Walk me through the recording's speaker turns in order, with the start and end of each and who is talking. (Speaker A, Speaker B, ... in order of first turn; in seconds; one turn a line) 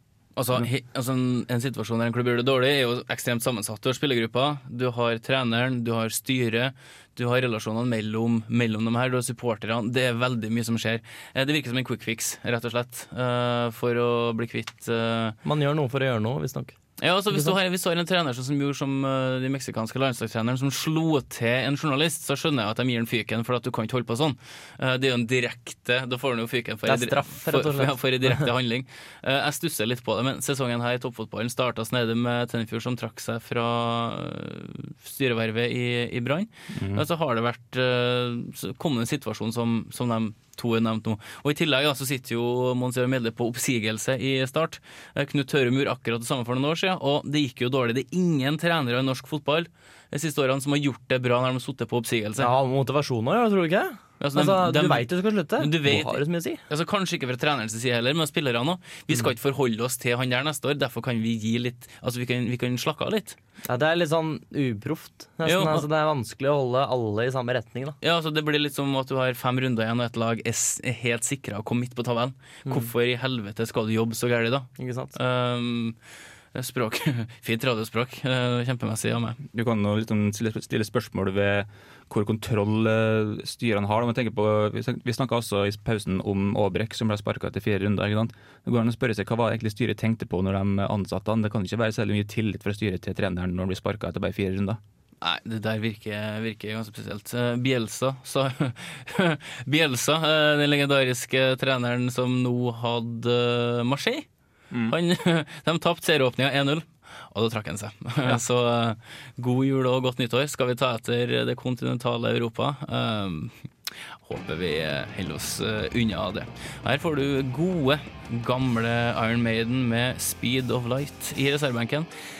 Speaker A: 0.4-15.4
Speaker B: 15.4-16.8
Speaker A: 17.0-52.5
Speaker B: 26.9-28.5
Speaker C: 36.8-37.0
Speaker B: 52.4-56.6
Speaker A: 54.2-63.4
Speaker B: 63.7-68.0
Speaker A: 65.5-65.9
Speaker A: 68.0-76.0
Speaker B: 74.8-75.1
Speaker A: 76.5-79.4
Speaker C: 79.5-94.8
Speaker A: 95.2-104.3
Speaker A: 104.9-122.1